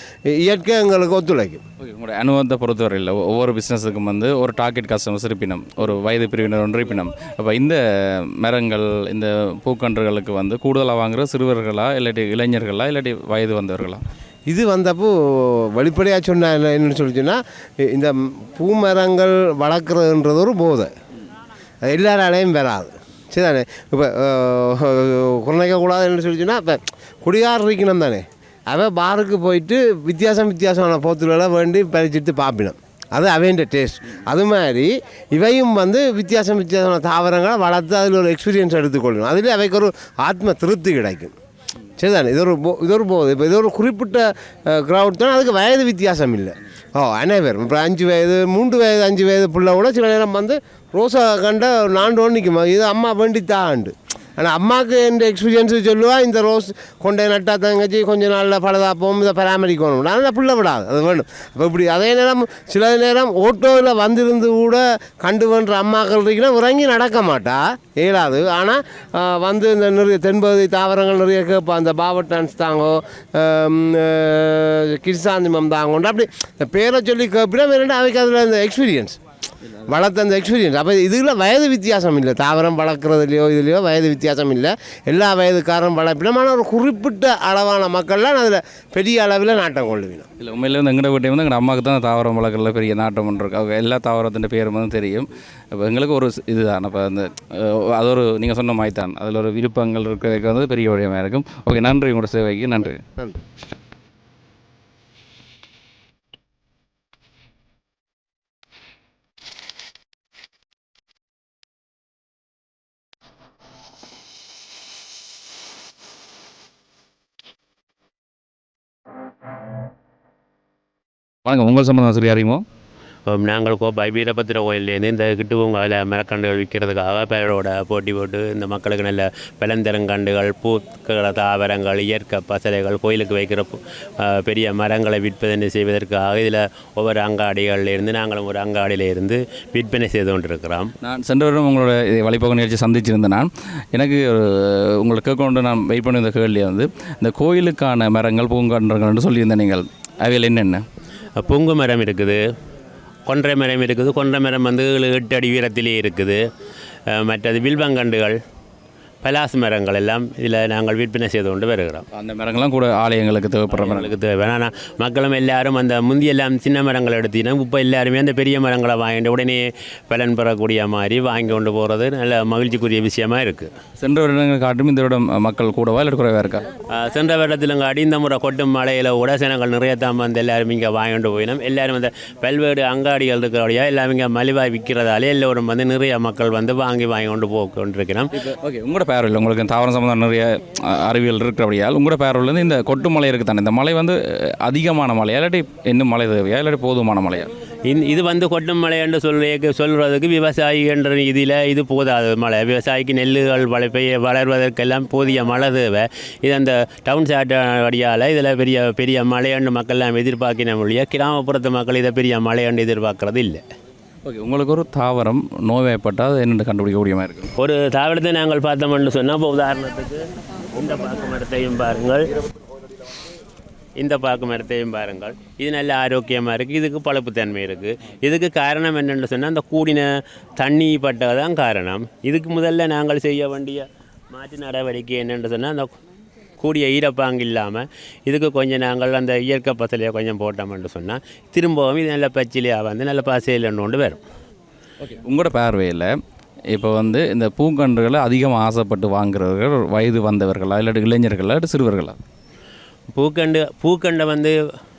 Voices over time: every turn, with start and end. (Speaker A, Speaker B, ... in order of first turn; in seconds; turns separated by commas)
Speaker A: 0.4-1.6, Speaker B: 1.8-14.0, Speaker A: 14.5-20.9, Speaker A: 21.8-41.3, Speaker A: 42.0-79.2, Speaker A: 79.8-90.3, Speaker B: 90.4-103.0, Speaker B: 121.5-122.6, Speaker C: 123.3-140.9, Speaker B: 141.0-150.8, Speaker C: 151.4-152.4, Speaker C: 153.3-156.4, Speaker C: 157.1-158.3, Speaker C: 159.2-162.0, Speaker B: 162.1-164.2, Speaker C: 163.7-173.7, Speaker B: 174.0-176.7, Speaker C: 177.0-188.3, Speaker B: 188.4-197.5, Speaker C: 197.9-213.6, Speaker B: 214.2-217.5, Speaker C: 217.6-220.2, Speaker C: 220.8-222.2, Speaker C: 224.0-230.1, Speaker C: 230.6-235.9, Speaker C: 236.6-244.2, Speaker B: 245.0-246.1, Speaker B: 246.7-252.2, Speaker C: 253.2-254.6